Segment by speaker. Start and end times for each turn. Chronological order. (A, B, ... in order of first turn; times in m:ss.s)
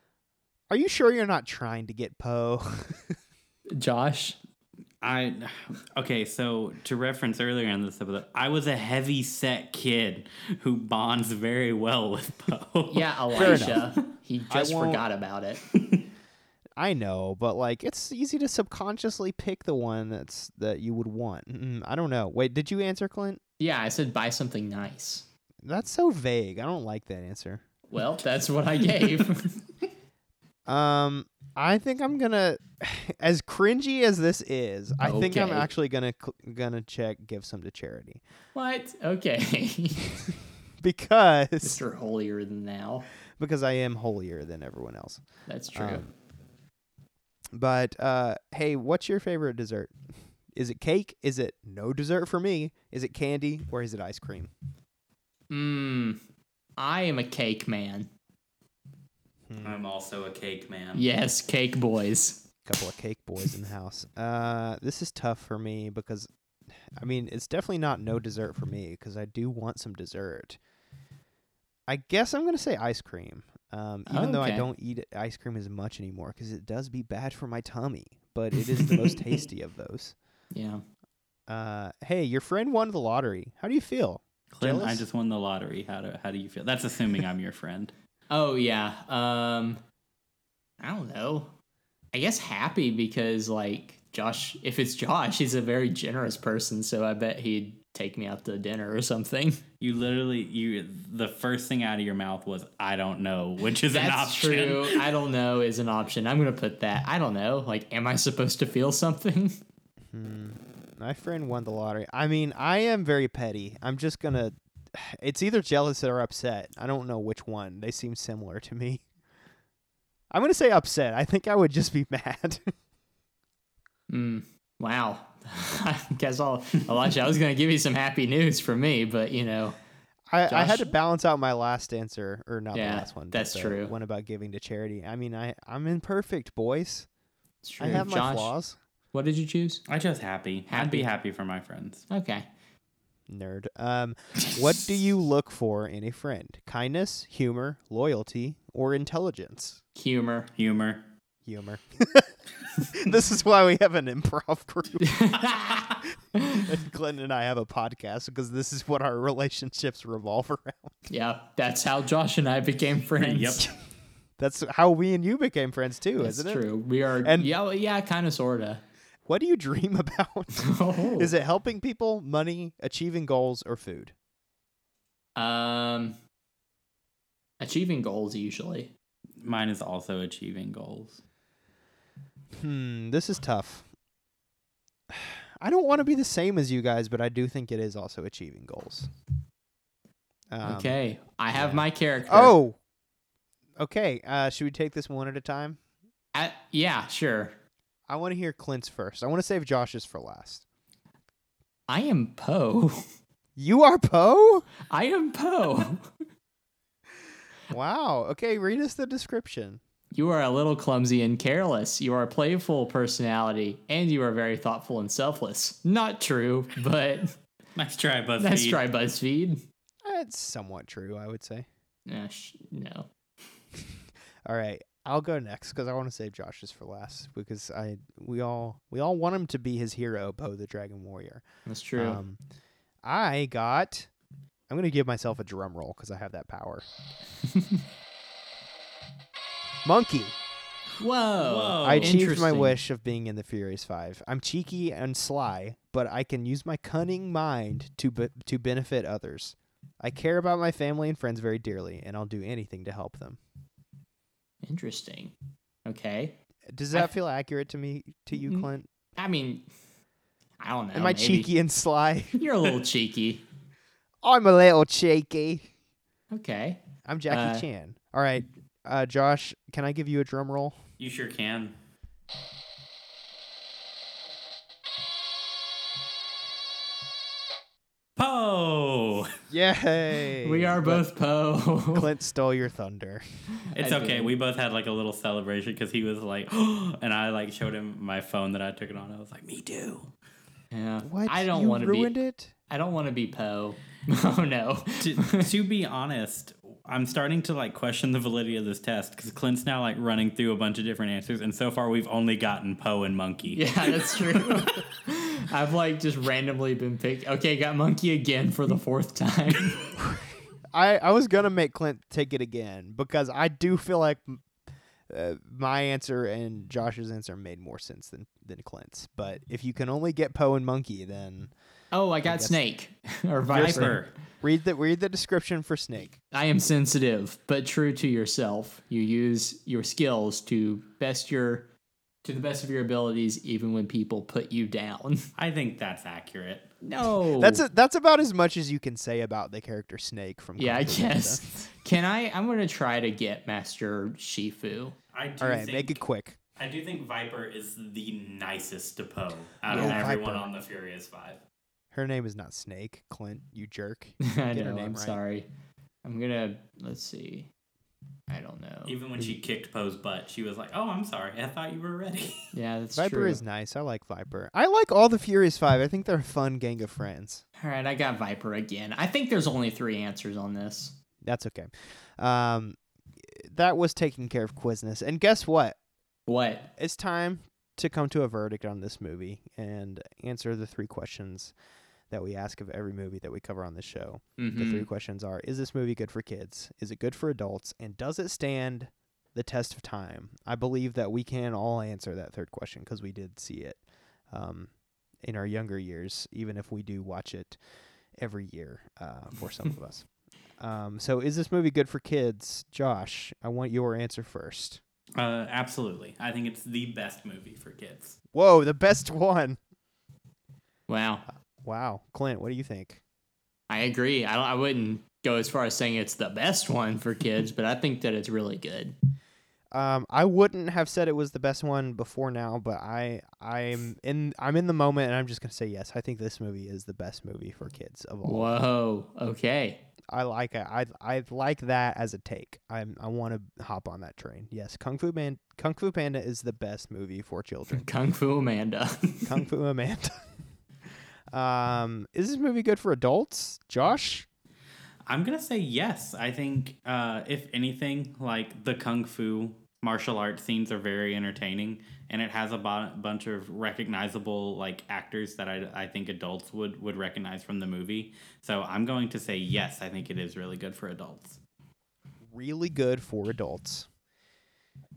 0:00.7-0:03.2 A
0:03.7-0:04.4 B
0:05.0-0:13.8 C
0:12.9-0:15.6 B
0:13.3-0:13.9 A
0:14.5-0:15.0 A
0:15.7-0:16.0 C
0:16.8-0:23.4 A
0:23.6-0:25.2 B
0:25.6-0:27.6 A
0:27.9-0:29.6 B
0:30.7-0:38.2 A
0:35.0-0:35.7 B
0:38.5-0:40.0 B
0:40.8-0:41.8 A
0:41.6-0:43.1 B
0:43.4-0:45.2 A
0:45.5-0:46.0 B
0:45.7-0:46.1 A
0:47.5-0:49.9 A
0:50.5-0:54.5 A
0:55.5-0:56.2 B
0:56.8-0:58.1 B
0:59.5-0:59.8 A
0:59.6-1:01.0 C
1:00.9-1:02.4 B
1:02.6-1:06.3 A
1:06.9-1:10.6 A
1:11.9-1:20.1 A
1:14.1-1:14.7 B
1:18.6-1:19.1 B
1:20.5-1:20.8 B
1:21.5-1:25.0 A
1:24.5-1:27.9 C
1:28.3-1:29.8 B
1:30.8-1:31.5 B
1:32.1-1:39.6 B
1:39.8-1:45.0 C
1:43.9-1:49.6 B
1:50.1-1:59.0 A
2:00.3-2:02.7 A
2:04.1-2:09.8 B
2:10.3-2:17.1 A
2:10.5-2:10.9 B
2:12.7-2:13.9 B
2:17.6-2:18.5 B
2:17.8-2:18.8 A
2:19.1-2:19.8 B
2:19.9-2:22.1 C
2:20.7-2:21.1 B
2:22.1-2:22.5 B
2:23.3-2:29.8 A
2:29.9-2:30.5 B
2:30.6-2:31.0 C
2:31.4-2:35.2 A
2:35.0-2:36.7 B
2:36.6-2:41.0 A
2:41.1-2:43.6 B
2:43.2-2:43.6 C
2:44.4-2:46.6 A
2:46.2-2:48.8 B
2:47.2-2:47.5 A
2:49.2-2:54.1 A
2:50.6-2:51.3 B
2:55.4-2:56.2 B
2:57.6-2:58.9 B
2:59.4-3:01.2 C
3:02.6-3:03.8 A
3:05.1-3:09.1 A
3:10.5-3:11.0 A
3:10.6-3:12.5 B
3:11.5-3:12.8 A
3:13.8-3:15.8 A
3:16.3-3:17.6 B
3:18.1-3:20.6 A
3:21.9-3:23.0 B
3:23.6-3:24.7 A
3:24.9-3:26.1 B
3:27.7-3:29.8 A
3:30.1-3:37.4 B
3:37.7-3:38.8 C
3:38.4-3:39.6 B
3:40.0-3:41.7 A
3:42.1-3:43.1 B
3:44.4-3:51.4 A
3:51.6-3:52.2 B
3:52.0-3:52.4 A
3:53.0-3:54.1 A
3:54.7-3:56.8 A
3:57.5-3:57.8 B
3:59.8-4:00.4 A
4:01.0-4:02.8 B
4:01.4-4:02.2 C
4:01.8-4:13.4 A
4:14.6-4:15.3 B
4:15.8-4:16.4 B
4:16.7-4:18.9 A
4:18.4-4:19.6 B
4:20.6-4:21.5 B
4:20.9-4:22.4 A
4:22.4-4:23.4 B
4:24.2-4:25.7 A
4:26.3-4:27.6 B
4:27.0-4:30.8 A
4:31.0-4:31.7 C
4:38.2-4:39.3 C
4:39.5-4:41.1 A
4:40.4-4:42.1 B
4:41.9-4:43.2 A
4:43.6-4:44.3 B
4:43.7-4:50.1 C
4:50.7-4:52.2 B
4:51.0-4:52.5 A
4:52.7-4:55.5 B
4:55.0-5:04.8 C
5:03.5-5:09.8 B
5:10.0-5:14.4 A
5:15.1-5:21.5 A
5:21.9-5:24.0 B
5:22.2-5:22.6 A
5:23.5-5:26.2 A
5:23.5-5:24.1 C
5:26.3-5:31.7 B
5:32.2-5:35.3 B
5:35.4-5:36.7 C
5:36.8-5:37.6 B
5:37.4-5:41.7 A
5:40.6-5:45.0 B
5:45.1-5:46.0 C
5:45.4-5:46.4 A
5:46.6-5:51.4 C
5:49.7-5:50.5 A
5:49.7-5:50.0 B
5:51.9-5:55.2 A
5:54.2-5:55.5 B
5:56.0-5:57.5 B
5:58.3-5:59.0 B
5:58.8-6:02.5 C
6:02.5-6:03.4 B
6:03.0-6:07.4 A
6:07.6-6:11.0 B
6:11.2-6:15.8 A
6:16.3-6:16.7 B
6:16.8-6:21.5 A
6:22.1-6:33.8 A
6:24.4-6:24.9 B
6:34.3-6:34.7 A
6:35.2-6:37.6 A
6:38.2-6:40.0 A
6:40.6-6:44.8 A
6:45.2-6:48.2 C
6:48.3-6:49.6 A
6:50.9-6:51.2 B
6:51.6-6:53.0 A
6:53.7-6:58.9 B
6:59.7-7:08.6 A
7:08.2-7:09.8 B
7:10.1-7:17.8 A
7:17.7-7:19.3 B
7:19.2-7:20.2 A
7:21.3-7:24.2 A
7:25.0-7:41.4 C
7:42.3-7:43.9 A